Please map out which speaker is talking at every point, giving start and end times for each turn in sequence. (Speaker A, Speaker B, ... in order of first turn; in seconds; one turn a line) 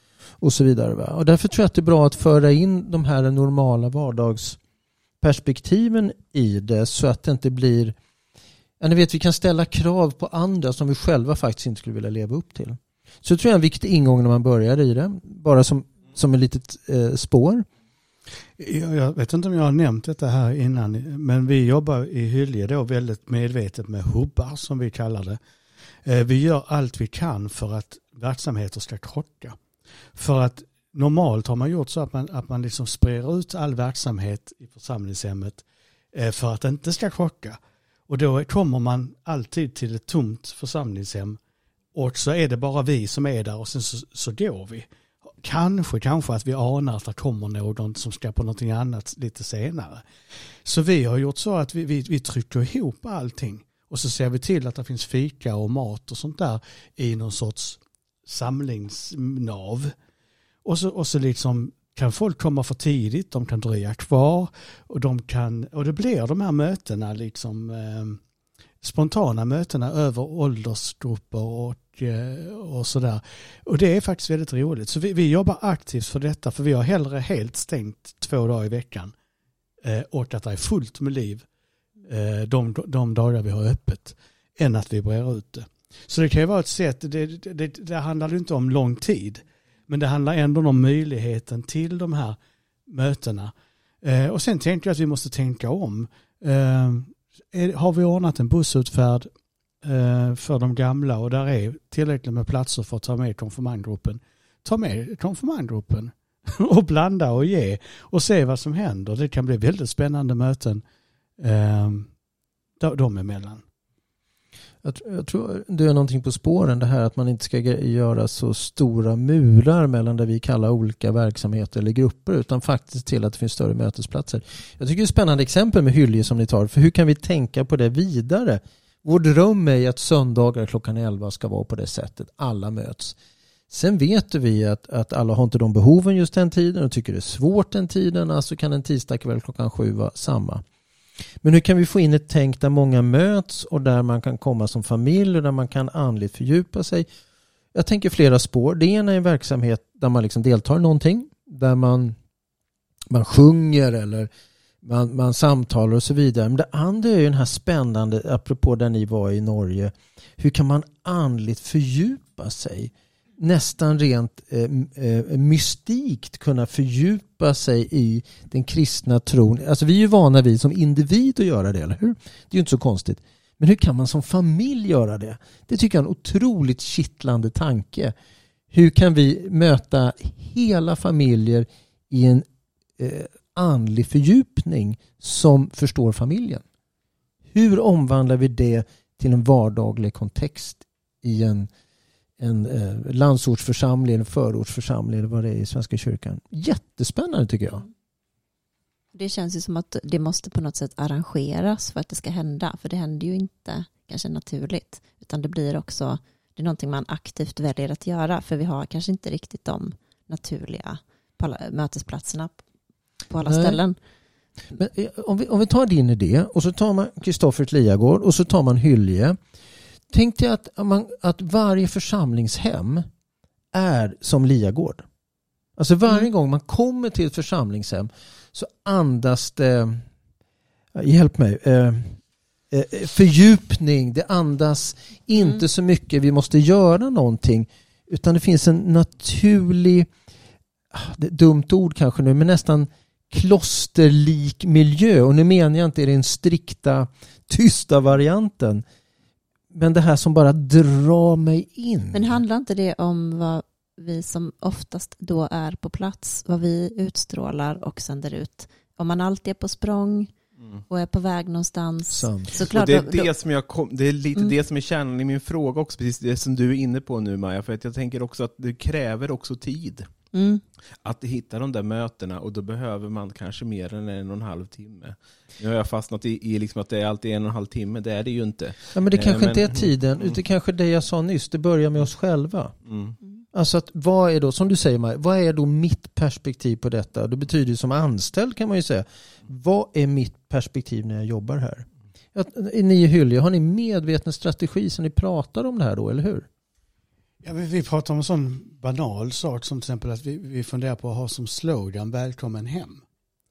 Speaker A: 0.4-4.6
Speaker A: 5.2-8.0
Speaker A: 8.8-17.6
Speaker B: 18.6-25.4
Speaker B: 26.0-29.6
Speaker B: 30.1-41.4
Speaker B: 41.9-44.9
Speaker B: 45.4-50.0
Speaker B: 50.6-59.9
Speaker B: 60.6-68.2
Speaker B: 68.8-79.1
Speaker B: 79.8-81.5
Speaker B: 82.0-99.3
Speaker B: 99.8-110.8
Speaker B: 111.4-112.1
Speaker B: 112.8-113.6
Speaker A: 114.8-133.2
Speaker A: 133.7-140.6
Speaker A: 141.4-147.1
Speaker A: 147.7-152.2
Speaker A: 153.1-154.3
Speaker A: 154.8-178.1
Speaker A: 178.7-182.4
Speaker A: 183.0-186.6
Speaker A: 187.5-191.7
Speaker A: 192.4-197.8
Speaker C: 199.1-212.6
Speaker C: 213.3-214.0
Speaker A: 213.4-213.8
Speaker A: 214.7-219.4
Speaker A: 220.1-223.1
Speaker A: 223.7-225.0
Speaker A: 225.8-230.0
Speaker A: 230.9-232.2
Speaker A: 232.7-240.1
Speaker C: 235.3-235.6
Speaker A: 240.9-248.8
Speaker A: 249.7-252.4
Speaker C: 252.1-260.3
Speaker C: 260.9-263.3
Speaker A: 262.1-262.6
Speaker D: 262.6-270.1
Speaker C: 270.3-270.6
Speaker D: 271.0-280.4
Speaker A: 278.9-282.8
Speaker D: 282.9-283.1
Speaker A: 283.5-296.5
Speaker B: 297.4-303.0